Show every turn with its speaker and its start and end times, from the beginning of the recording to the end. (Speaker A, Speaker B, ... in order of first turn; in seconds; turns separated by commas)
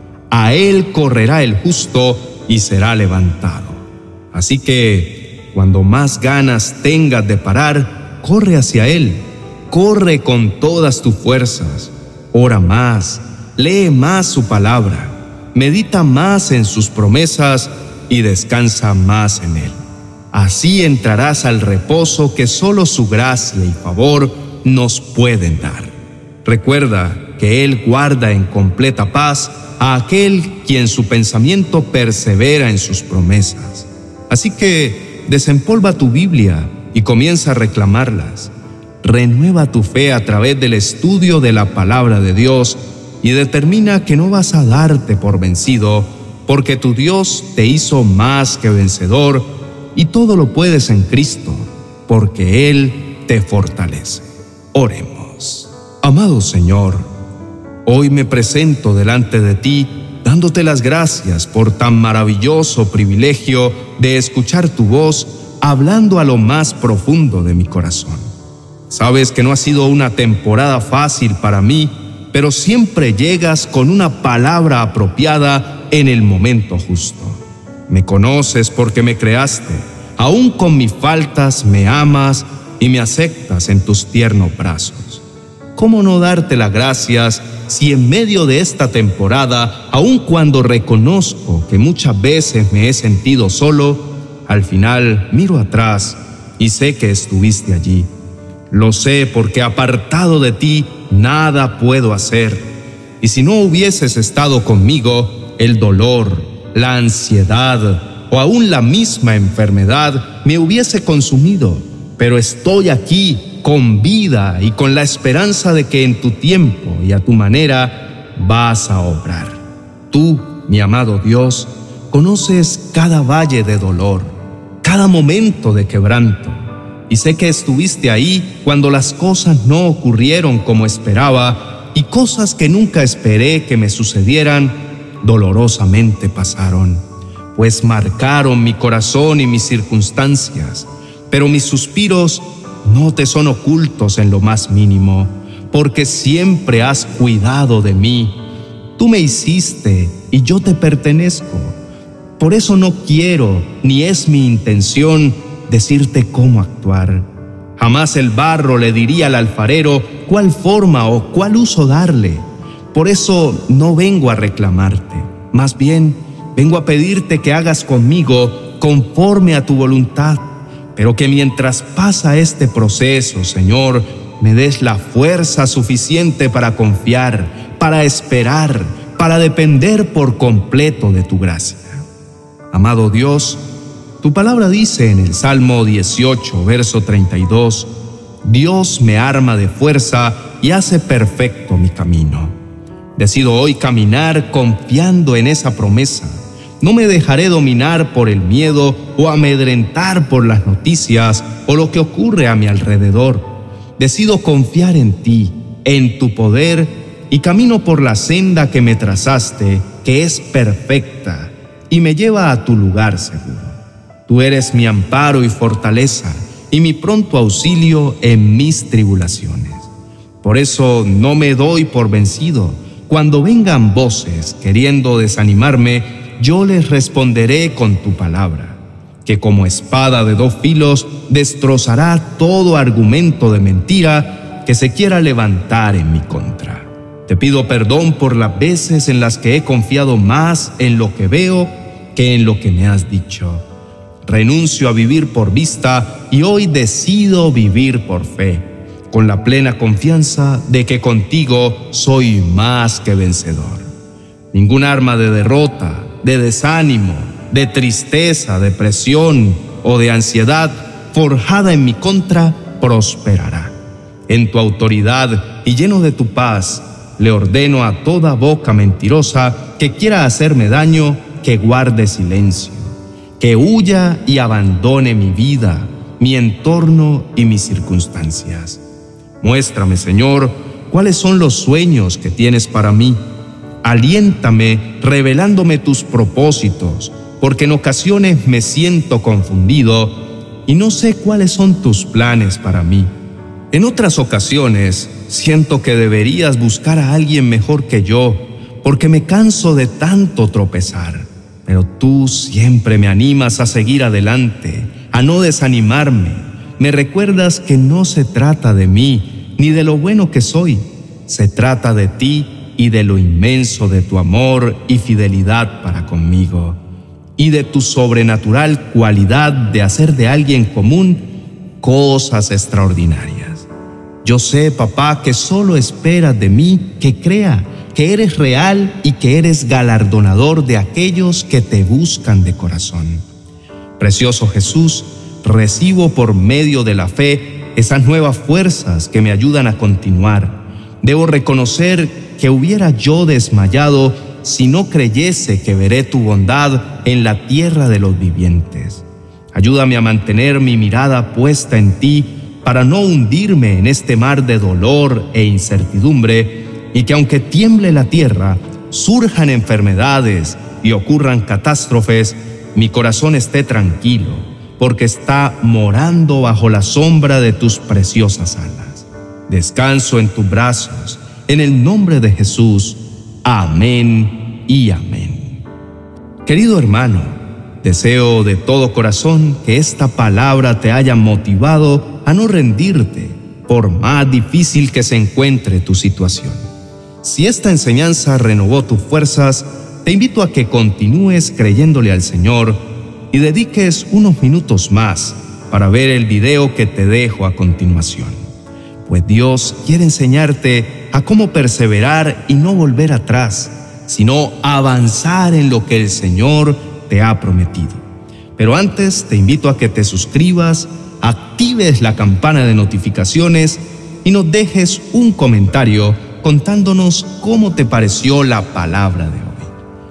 Speaker A: 0.3-19.8, Speaker A: 20.3-57.1, Speaker A: 57.8-68.3, Speaker A: 68.9-85.2, Speaker A: 85.8-98.1, Speaker A: 98.7-102.7, Speaker A: 103.2-137.0, Speaker A: 137.5-148.3, Speaker A: 149.0-151.8, Speaker A: 152.4-157.2, Speaker A: 157.8-182.0, Speaker A: 182.7-183.6, Speaker A: 184.2-187.9, Speaker A: 188.4-192.5, Speaker A: 193.2-219.9, Speaker A: 220.4-243.6, Speaker A: 244.2-253.9, Speaker A: 254.5-263.7, Speaker A: 264.3-278.8, Speaker A: 279.4-283.2, Speaker A: 283.8-293.1, Speaker A: 293.7-316.8, Speaker A: 317.4-321.2, Speaker A: 321.8-323.7, Speaker A: 324.2-333.2, Speaker A: 334.0-375.6, Speaker A: 376.4-386.7, Speaker A: 387.2-398.5, Speaker A: 399.0-408.0, Speaker A: 408.6-419.7